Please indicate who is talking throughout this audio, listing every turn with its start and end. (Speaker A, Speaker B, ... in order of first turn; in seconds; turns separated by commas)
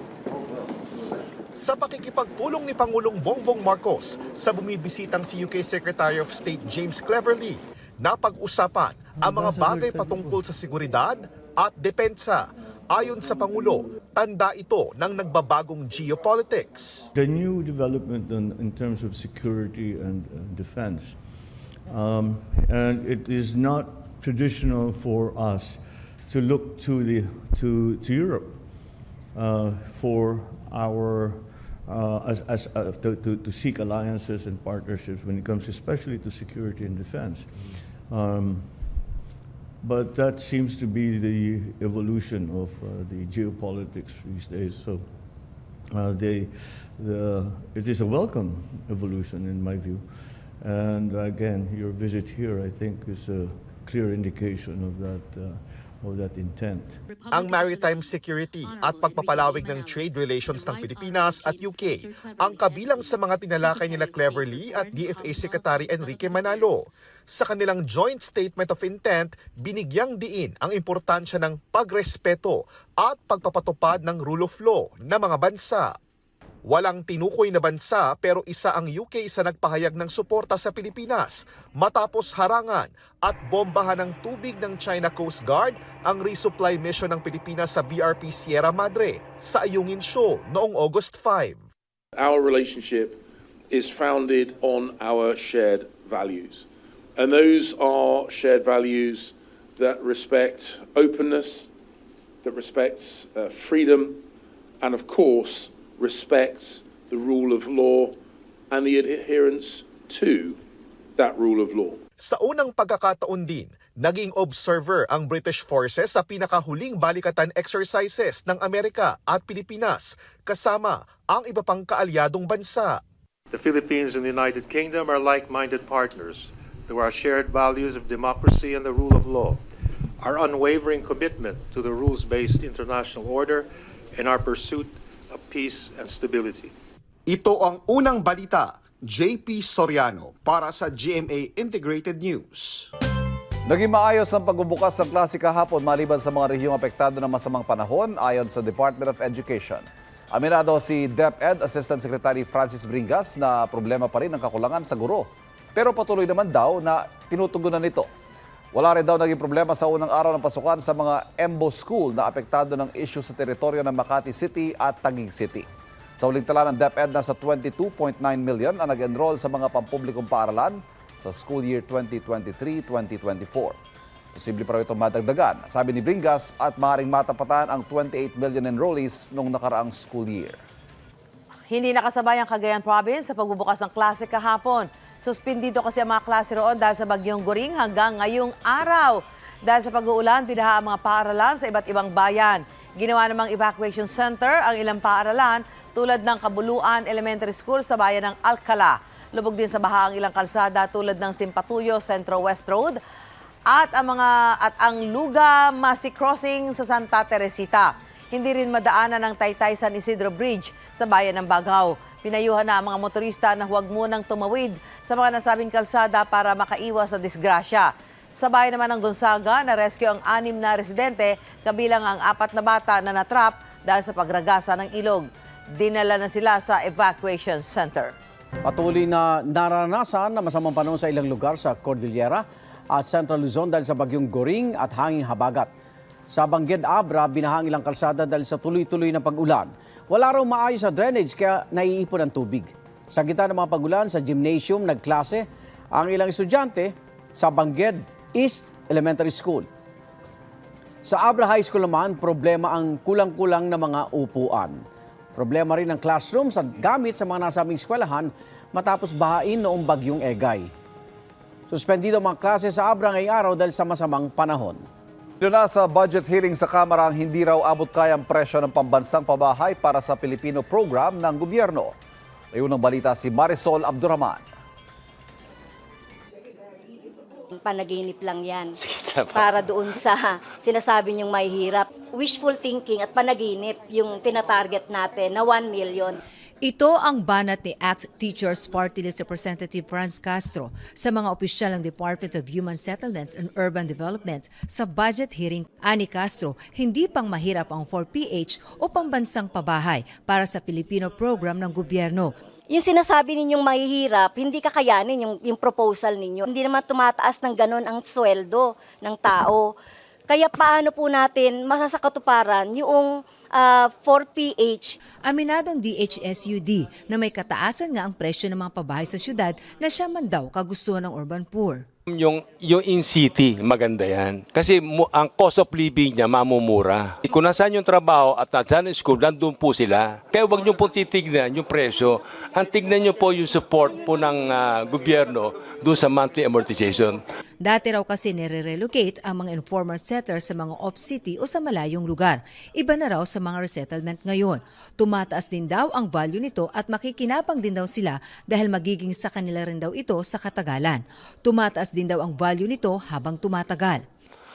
Speaker A: 1.6-17.1, Speaker B: 9.2-10.4, Speaker B: 17.1-39.1, Speaker B: 39.8-57.1, Speaker A: 57.3-75.9, Speaker A: 76.7-91.6, Speaker C: 92.2-93.2, Speaker C: 93.7-96.7, Speaker C: 97.2-101.7, Speaker C: 102.4-104.2, Speaker C: 104.8-108.2, Speaker C: 108.7-110.6, Speaker C: 111.2-112.0, Speaker A: 112.2-123.0, Speaker D: 123.5-129.6, Speaker D: 130.2-136.7, Speaker A: 137.3-142.9, Speaker E: 143.7-158.1, Speaker E: 158.7-165.7, Speaker E: 166.2-173.8, Speaker E: 174.3-180.6, Speaker F: 181.7-203.0, Speaker F: 203.7-228.1, Speaker G: 228.7-235.7, Speaker G: 236.3-249.7, Speaker G: 251.1-254.8, Speaker G: 255.3-260.7, Speaker G: 261.7-264.8, Speaker E: 265.4-271.9, Speaker E: 272.5-274.4, Speaker H: 277.6-278.7, Speaker I: 278.8-279.7, Speaker H: 279.3-286.2, Speaker J: 286.7-302.3, Speaker H: 302.7-309.7, Speaker H: 310.3-314.9, Speaker J: 315.3-321.8, Speaker I: 322.1-337.2, Speaker J: 337.7-354.0